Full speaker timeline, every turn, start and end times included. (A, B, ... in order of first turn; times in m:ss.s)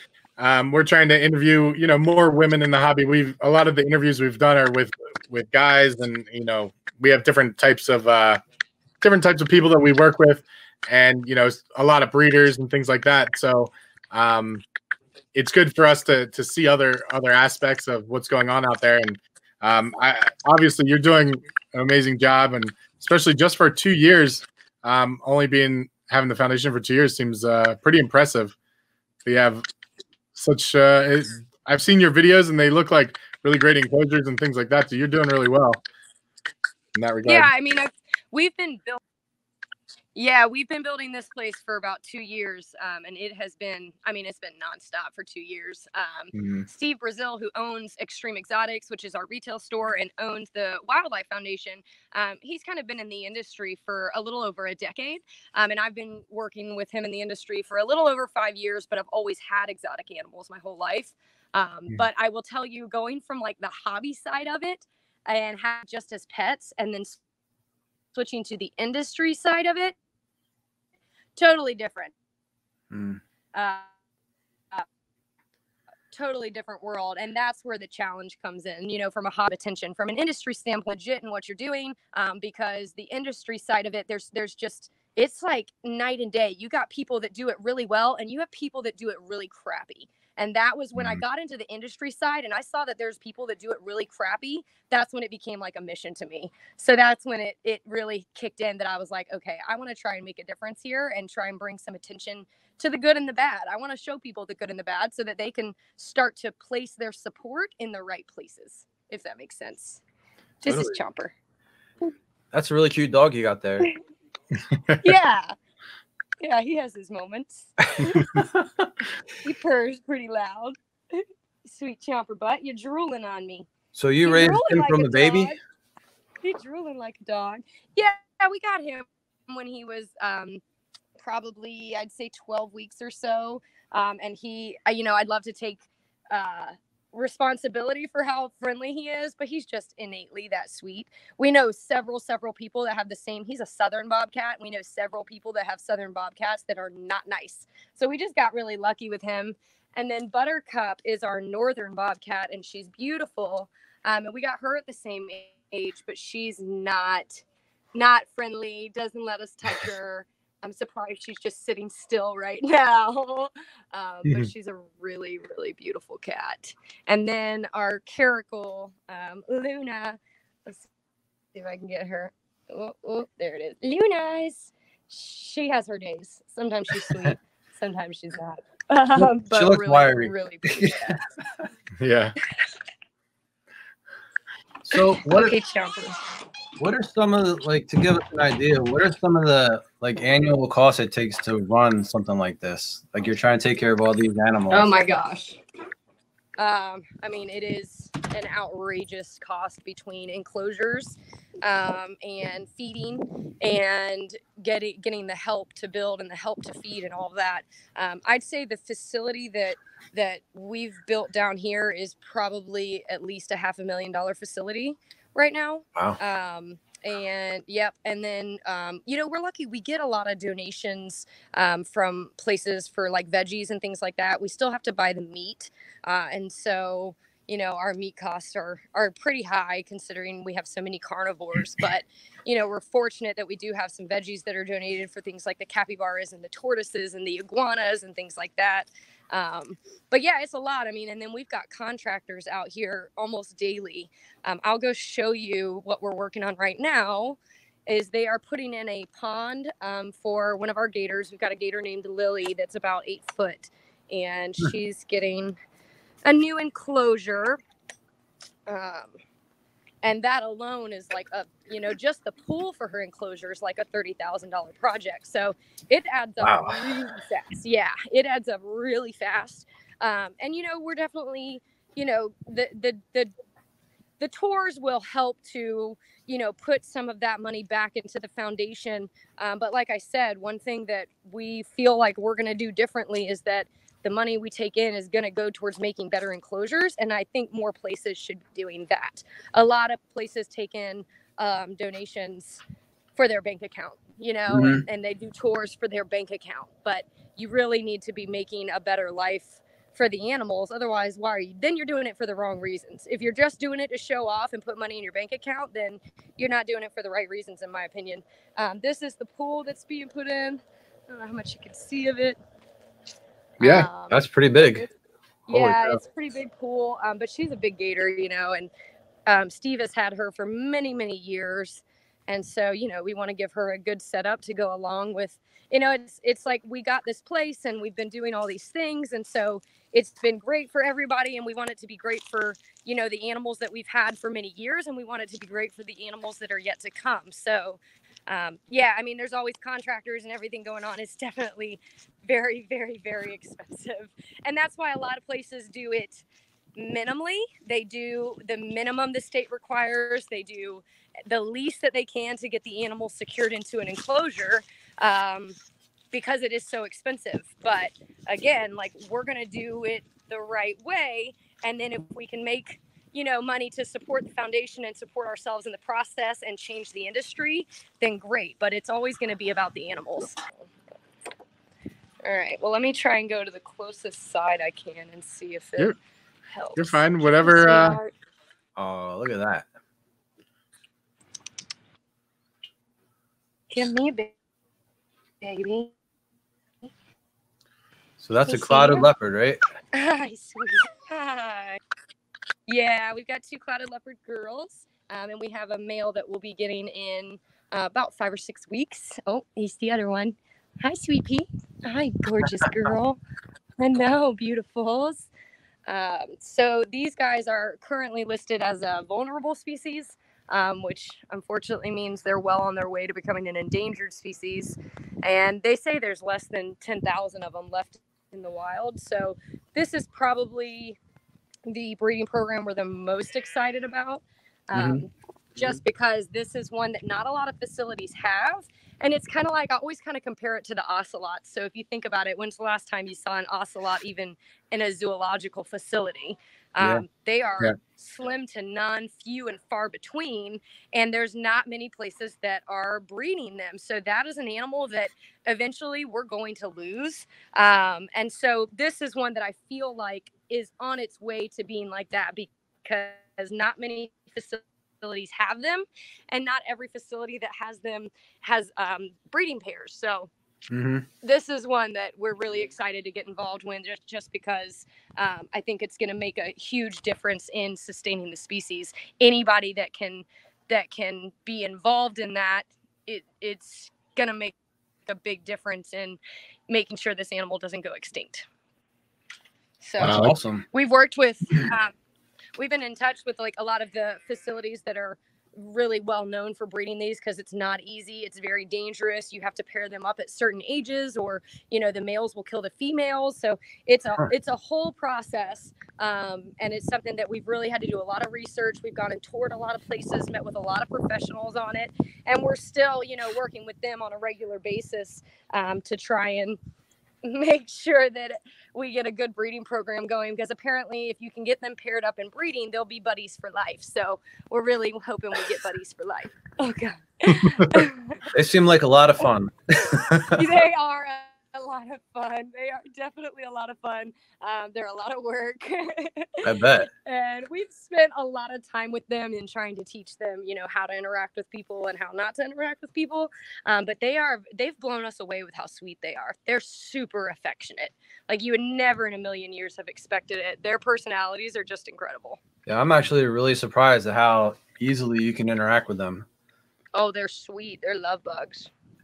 0:00.4-0:08.4 A
0:09.0-0:14.6 A
0:15.3-0:28.5 A
0:29.2-0:29.6 A
0:30.3-0:35.8 A
0:36.9-0:37.5 A
0:37.2-0:39.0 B
0:40.1-1:07.2 B
0:46.3-0:46.6 A
1:08.1-1:09.9 B
1:11.4-1:12.1 B
1:12.9-1:13.2 C
1:13.5-1:13.9 B
1:16.1-1:50.0 B
1:50.6-1:51.3 B
1:50.6-1:51.0 C
1:52.5-1:53.9 C
1:55.0-1:55.5 B
1:56.4-1:58.4 B
1:58.0-1:58.9 C
1:59.4-2:03.7 B
2:03.9-2:05.5 C
2:04.2-2:05.6 B
2:06.4-2:10.6 B
2:11.2-2:37.4 B
2:37.9-2:50.9 B
2:51.5-3:01.2 B
2:59.2-3:01.6 C
3:02.0-3:02.3 A
3:04.8-3:05.6 C
3:04.9-3:06.2 B
3:06.8-3:14.9 C
3:14.7-3:15.6 B
3:16.6-4:15.6 B
4:16.2-4:17.6 B
4:18.7-4:19.1 B
4:20.0-4:33.3 B
4:26.4-4:26.8 C
4:34.2-4:52.6 B
4:53.2-5:12.4 B
4:54.5-4:54.8 C
5:13.6-5:14.9 B
5:14.0-5:14.8 C
5:15.5-5:18.7 B
5:15.5-5:16.0 C
5:19.3-5:46.2 B
5:46.8-5:55.6 B
5:56.1-6:10.5 B
6:12.2-6:15.9 B
6:16.5-6:18.1 B
6:16.8-6:18.0 A
6:18.8-6:19.7 C
6:23.7-6:24.3 B
6:25.4-6:25.9 B
6:28.2-6:29.6 C
6:28.5-6:29.1 B
6:29.9-6:31.8 B
6:32.7-6:43.2 B
6:43.8-6:45.3 B
6:45.9-7:01.0 B
7:01.6-7:40.3 B
7:04.7-7:05.0 C
7:40.7-7:41.0 C
7:41.2-7:54.6 B
7:55.1-7:58.5 B
7:59.8-8:01.9 B
8:00.0-8:00.3 A
8:00.0-8:00.6 C
8:02.6-8:26.6 B
8:27.2-8:38.3 B
8:38.3-8:40.5 C
8:39.9-9:02.4 B
8:46.4-8:46.9 C
9:02.6-9:06.2 C
9:06.9-9:08.7 B